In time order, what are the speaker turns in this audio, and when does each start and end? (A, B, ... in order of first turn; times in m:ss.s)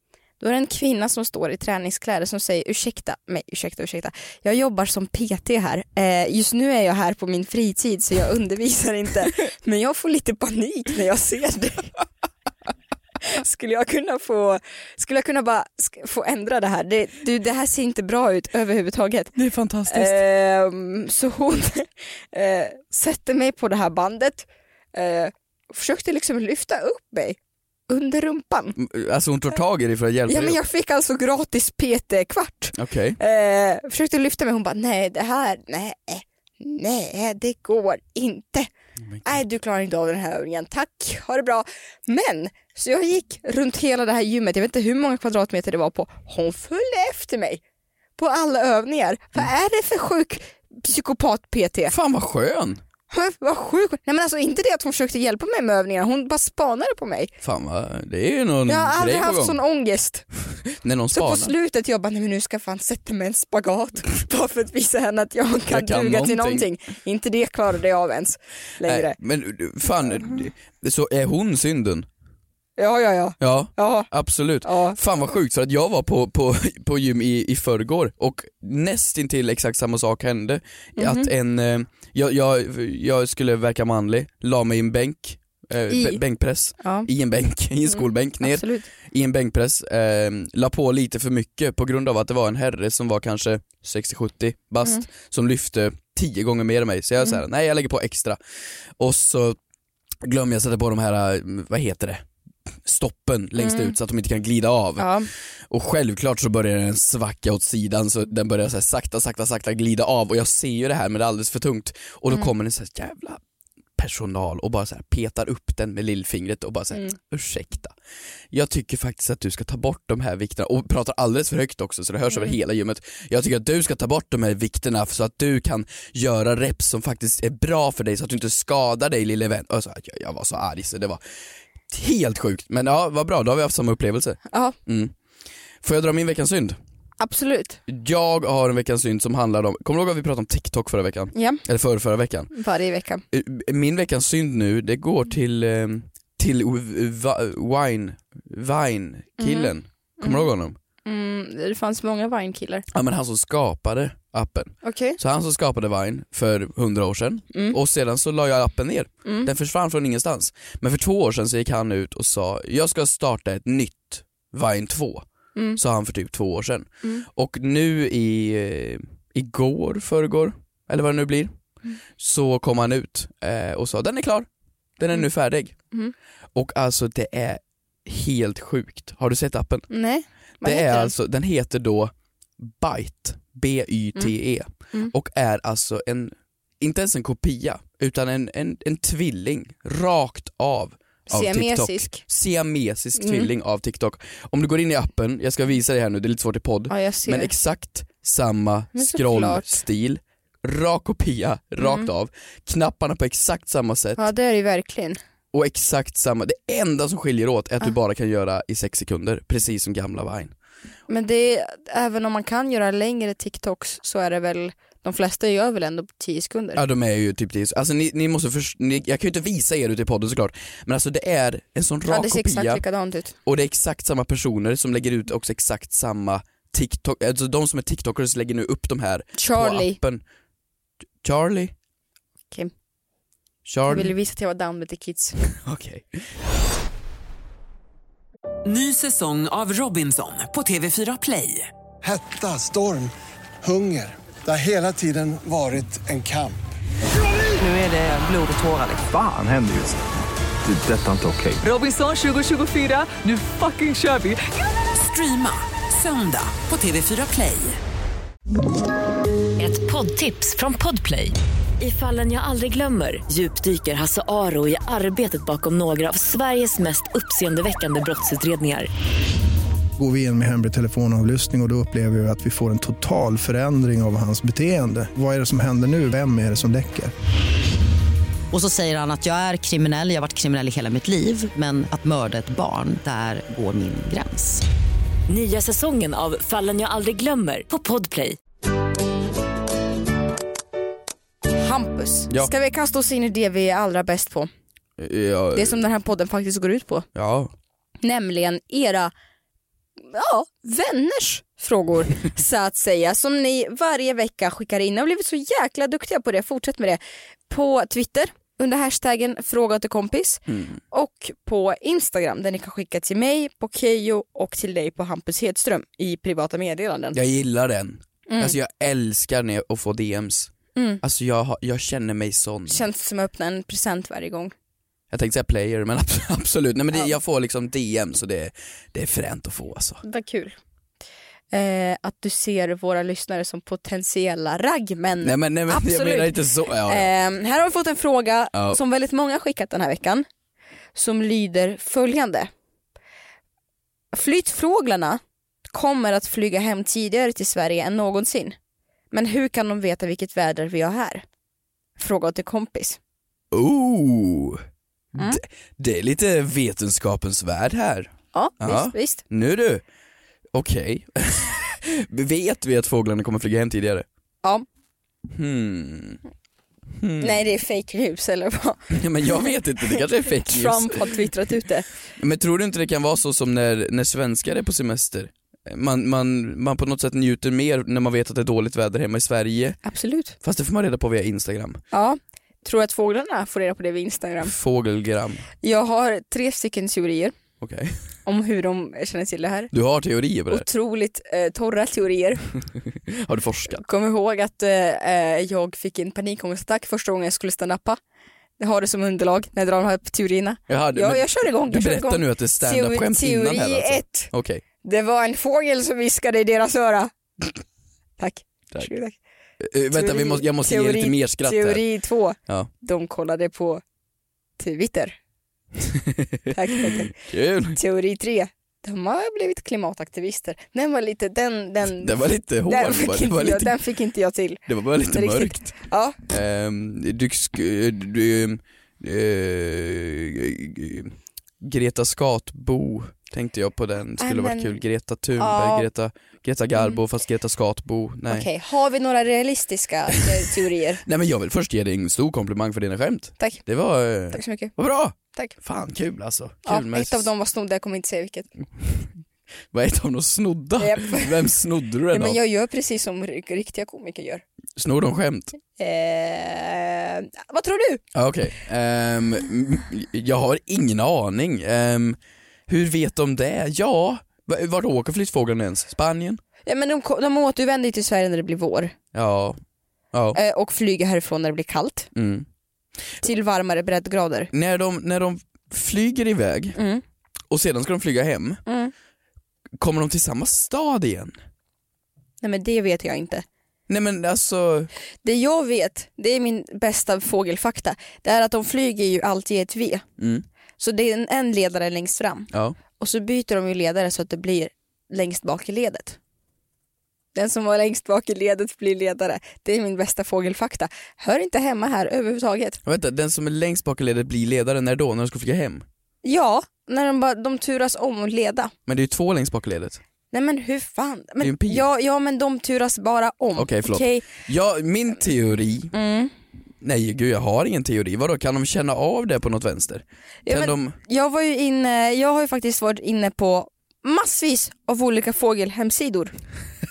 0:00.4-0:11.9 A
0:13.2-0:19.3 A
0:19.4-0:20.2 B
0:19.9-0:27.4 A
0:27.9-0:28.8 A
0:28.8-0:30.6 B
0:30.3-0:38.7 A
0:32.8-0:33.2 B
0:39.1-0:39.4 B
0:39.2-0:47.6 A
0:48.2-0:51.9 A
0:51.9-0:52.8 B
0:53.1-0:57.3 A
0:57.4-0:59.6 B
0:58.7-1:00.2 A
1:00.7-1:01.5 B
1:01.1-1:09.2 A
1:05.7-1:06.7 B
1:08.8-1:12.1 B
1:12.8-1:14.1 A
1:13.4-1:38.4 B
1:14.6-1:15.0 A
1:21.0-1:21.3 A
1:25.9-1:26.2 A
1:26.8-1:27.1 A
1:27.9-1:28.9 A
1:39.0-1:39.6 B
1:40.2-1:42.3 B
1:42.8-1:53.4 B
1:43.6-1:44.0 A
1:45.0-1:45.3 A
1:54.0-1:58.0 B
1:58.5-2:11.2 B
2:11.9-2:15.1 B
2:14.5-2:14.8 A
2:15.8-2:16.8 B
2:17.2-2:17.8 A
2:17.9-2:22.5 B
2:21.3-2:21.6 A
2:22.5-2:23.2 A
2:23.3-2:30.8 B
2:29.4-2:30.5 A
2:31.0-2:32.8 A
2:32.9-2:51.5 B
2:34.8-2:35.2 A
2:39.2-2:39.5 A
2:52.2-2:54.5 B
2:55.0-2:55.8 B
2:56.6-2:59.9 B
2:59.9-3:01.1 A
3:00.6-3:24.2 B
3:11.3-3:12.2 A
3:13.2-3:13.5 A
3:16.9-3:17.5 A
3:19.0-3:19.8 A
3:21.8-3:22.1 A
3:24.2-3:25.2 A
3:25.5-3:30.5 B
3:31.1-3:36.8 A
3:36.8-3:42.8 B
3:42.1-3:43.4 A
3:43.4-3:50.2 B
3:49.4-3:50.0 A
3:51.2-3:51.7 B
3:53.6-3:54.1 B
3:53.9-3:55.4 A
3:55.5-3:56.2 B
3:58.6-4:01.7 C
4:02.0-4:06.6 D
4:07.6-4:09.0 C
4:09.1-4:10.0 E
4:10.6-4:11.6 E
4:11.6-4:17.8 C
4:19.6-4:28.9 F
4:30.0-4:37.1 G
4:38.5-4:44.6 H
4:45.3-4:48.4 F
4:51.6-4:54.5 A
4:55.0-4:55.8 B
4:55.6-4:57.1 A
4:57.2-4:57.5 B
4:58.0-4:59.1 A
5:00.1-5:17.2 A
5:10.5-5:10.8 B
5:17.1-5:22.9 B
5:18.3-5:18.6 A
5:20.8-5:21.0 A
5:22.7-5:24.5 A
5:25.1-5:30.0 B
5:30.0-5:30.6 A
5:31.5-5:40.2 A
5:35.2-5:37.1 B
5:38.5-5:38.8 B
5:41.0-5:42.5 A
5:44.1-5:48.6 A
5:49.1-5:51.2 A
5:52.0-5:53.0 A
5:53.5-5:54.6 B
5:55.2-5:59.8 B
5:58.3-5:59.2 A
6:00.5-6:04.1 B
6:05.3-6:06.2 B
6:07.0-6:07.4 B
6:07.2-6:11.9 A
6:08.9-6:11.1 B
6:12.2-6:19.8 B
6:19.8-6:20.4 A
6:20.4-6:21.8 B
6:21.9-6:24.5 A
6:24.4-6:25.4 B
6:25.6-6:27.4 A
6:27.6-6:28.0 B
6:28.3-6:29.7 A
6:29.7-6:30.7 B
6:30.5-6:32.4 A
6:33.1-6:33.8 B
6:33.7-6:38.0 A
6:38.6-6:44.3 A
6:40.7-6:44.6 B
6:44.8-6:47.1 A
6:48.2-6:49.2 A
6:49.6-6:51.8 B
6:49.9-6:53.8 A
6:54.6-6:55.2 A
6:55.9-6:57.8 B
6:56.5-6:57.1 A
6:57.7-7:06.2 A
7:01.9-7:03.8 B
7:04.7-7:05.8 B
7:06.3-7:18.5 B
7:14.2-7:14.8 A
7:15.4-7:15.9 A
7:18.3-7:21.0 A
7:21.0-7:27.3 B
7:24.3-7:24.7 A
7:26.7-7:28.5 A
7:29.7-7:32.4 B
7:30.8-7:31.5 A
7:32.1-7:34.4 A
7:34.8-7:35.5 B
7:35.8-7:38.0 A
7:38.1-7:46.4 B
7:46.7-7:48.9 A
7:49.1-7:49.6 B
7:50.1-7:50.4 B
7:50.3-7:52.1 A
7:52.2-7:52.5 B
7:53.2-7:54.5 A
7:54.5-7:56.8 B
7:56.8-7:57.0 A
7:57.5-7:58.6 B
7:58.7-7:58.9 A
7:59.8-8:01.4 B
8:02.4-8:03.4 A
8:03.9-8:04.9 B
8:05.2-8:10.0 A
8:10.2-8:10.5 B
8:10.8-8:16.2 A
8:12.5-8:12.8 B
8:17.4-8:22.8 A
8:22.8-8:25.8 B
8:26.2-8:28.7 A
8:28.9-8:30.0 B
8:30.3-8:34.3 A
8:31.4-8:31.9 B
8:33.6-8:35.9 B
8:35.9-8:36.3 A
8:36.8-8:41.0 B
8:40.5-8:46.3 A